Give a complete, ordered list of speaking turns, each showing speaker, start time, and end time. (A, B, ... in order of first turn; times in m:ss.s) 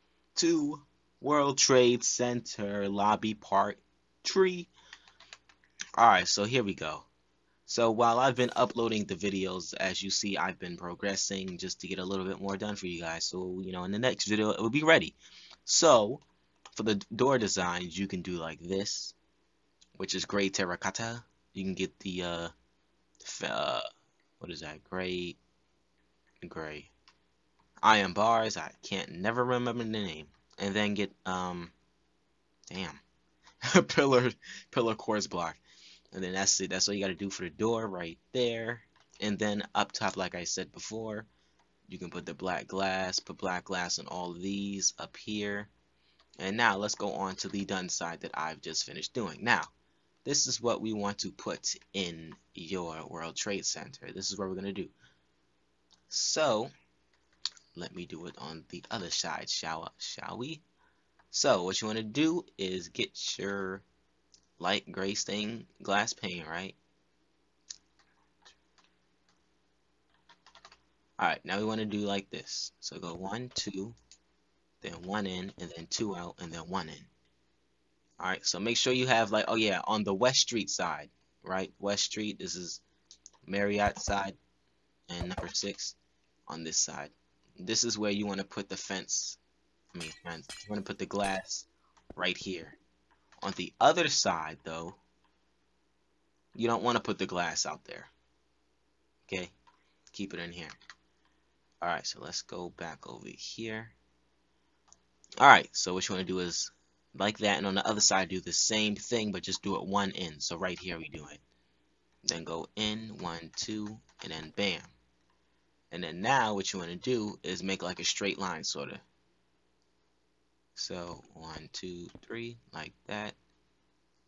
0:00.3-0:04.7 A
0:06.0-0:07.1 A
0:07.6-0:19.2 A
0:20.0-0:22.5 A
0:23.2-0:23.8 A
0:24.4-0:25.4 A
0:26.4-0:26.9 A
0:27.8-0:31.7 A
0:32.7-0:33.0 A
0:33.6-0:35.6 A
0:36.1-0:41.3 A
0:41.9-0:45.7 A
0:46.4-0:49.7 A
0:50.2-0:54.9 A
0:56.1-0:56.7 A
0:57.7-1:00.6 A
1:01.3-1:03.8 A
1:04.6-1:06.8 A
1:11.2-1:14.0 A
1:14.8-1:17.1 A
1:18.2-1:22.8 A
1:23.4-1:24.4 A
1:25.1-1:26.0 A
1:26.5-1:29.4 A
1:29.9-1:32.8 A
1:33.4-1:35.0 A
1:36.5-1:38.1 A
1:39.3-1:39.5 A
1:40.1-1:40.8 A
1:41.8-1:44.0 A
1:45.4-1:51.4 A
1:52.2-1:54.9 A
1:55.9-1:59.0 A
2:00.8-2:03.4 A